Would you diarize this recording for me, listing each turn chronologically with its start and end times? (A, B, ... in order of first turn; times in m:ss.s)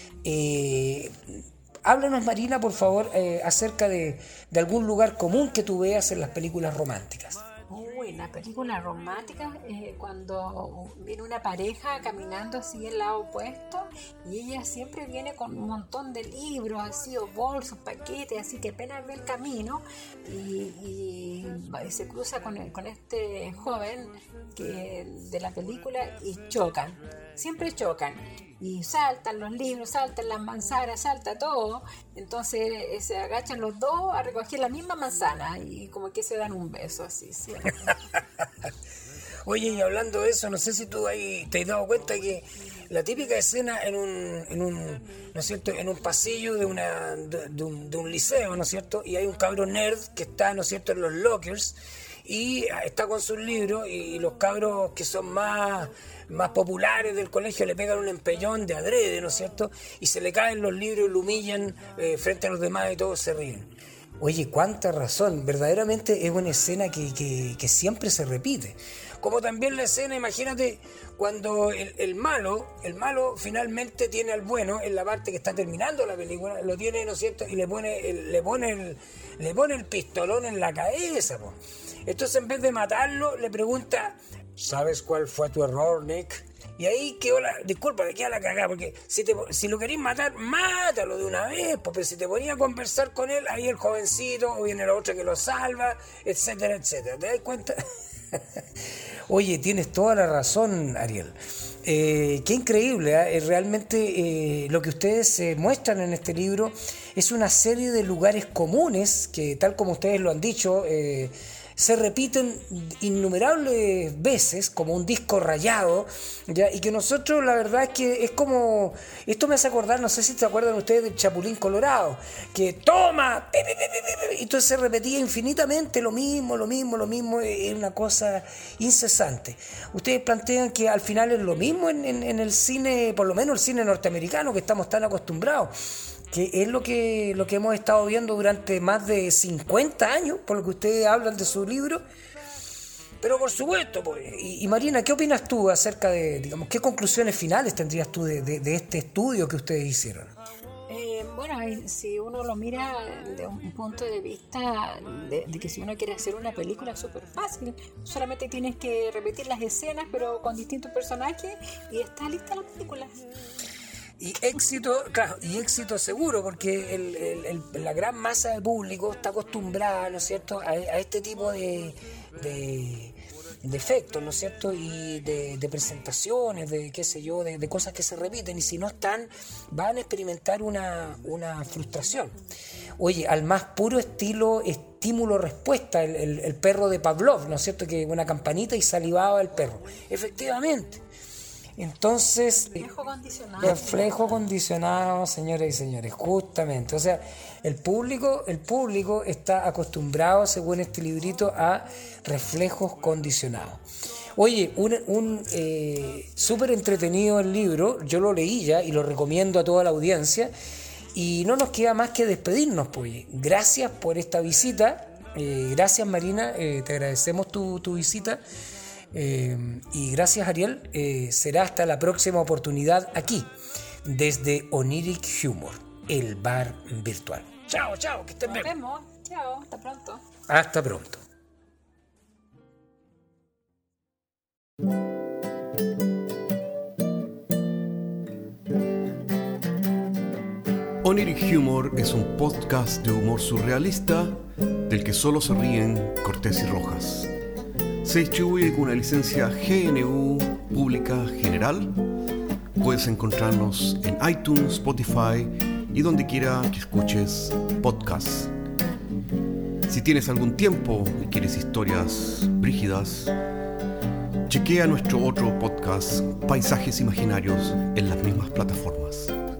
0:00.2-0:07.4 A
0:07.7-0:38.0 B
0:39.4-1:37.8 A
1:38.3-1:38.6 A
1:39.3-2:15.7 A
2:16.3-2:22.0 A
2:23.2-2:30.3 A
2:30.9-2:43.2 B
2:44.2-3:02.4 A
3:03.0-3:11.0 A
3:11.8-3:12.8 A
3:12.7-3:14.2 B
3:13.6-3:23.8 A
3:24.4-3:30.5 A
3:31.1-3:38.4 A
3:39.1-3:43.5 A
3:44.0-3:48.7 A
3:48.4-3:50.2 B
3:50.5-3:51.2 A
4:01.0-4:07.3 C
4:08.0-4:12.0 C
4:12.8-4:18.5 C
4:19.8-4:23.3 C
4:24.5-4:29.3 C